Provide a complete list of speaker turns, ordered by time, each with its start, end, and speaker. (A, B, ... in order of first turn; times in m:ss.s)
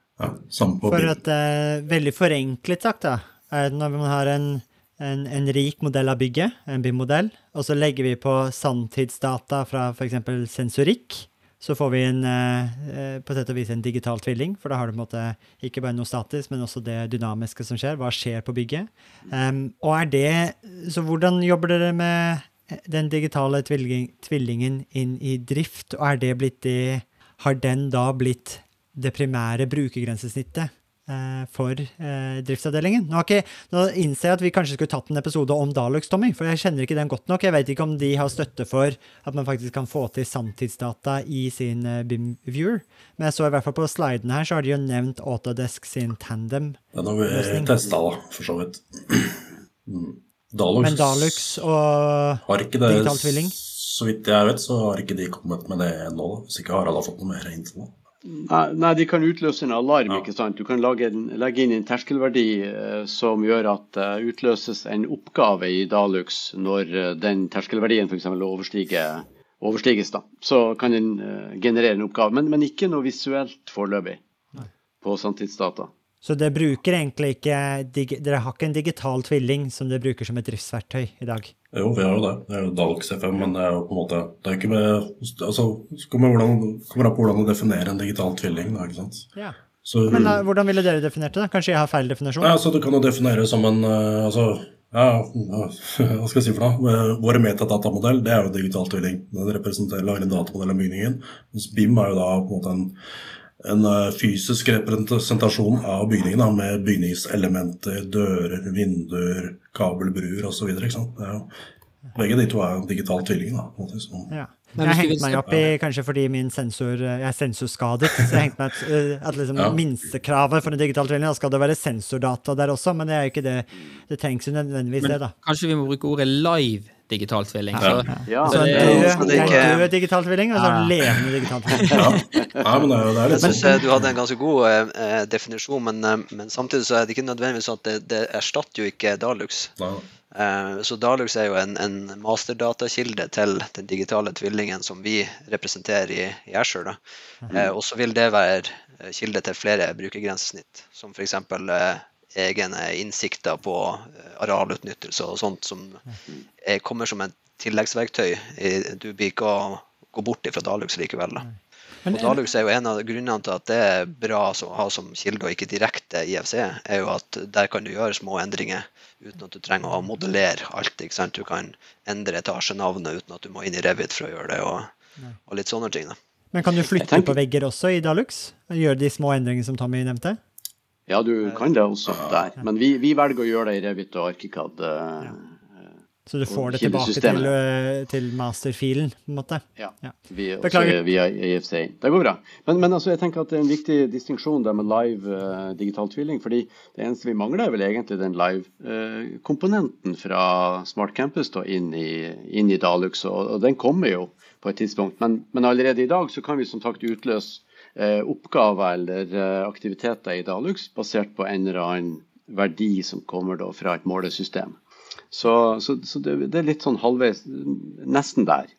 0:00.2-0:01.2 A
0:00.9-0:47.8 B
0:46.9-0:51.6 A
0:50.8-0:53.6 B
0:52.5-0:57.9 A
0:58.3-1:14.2 C
1:15.0-1:15.9 C
1:16.2-1:21.5 B
1:21.7-1:29.3 A
1:29.4-1:32.6 B
1:29.8-1:30.4 A
1:32.4-1:43.0 A
1:43.6-1:51.5 A
1:52.1-1:54.3 A
1:54.3-2:05.3 B
1:54.8-1:55.5 D
2:05.0-2:09.3 D
2:07.7-2:12.0 B
2:07.8-2:08.1 A
2:08.2-2:09.8 C
2:08.9-2:09.8 E
2:10.6-2:10.9 D
2:11.8-2:12.1 D
2:11.9-2:12.6 C
2:11.9-2:14.0 A
2:13.3-2:19.7 E
2:19.8-2:20.0 A
2:20.3-2:27.0 E
2:27.5-2:36.0 E
2:36.6-2:41.5 E
2:42.1-2:54.9 E
2:42.1-2:42.3 D
2:55.5-2:56.2 E
2:56.5-3:00.4 B
2:57.0-2:57.4 C
3:01.1-3:05.5 C
3:06.3-3:11.0 B
3:06.5-3:07.5 C
3:09.8-3:34.8 C
3:35.3-3:38.7 C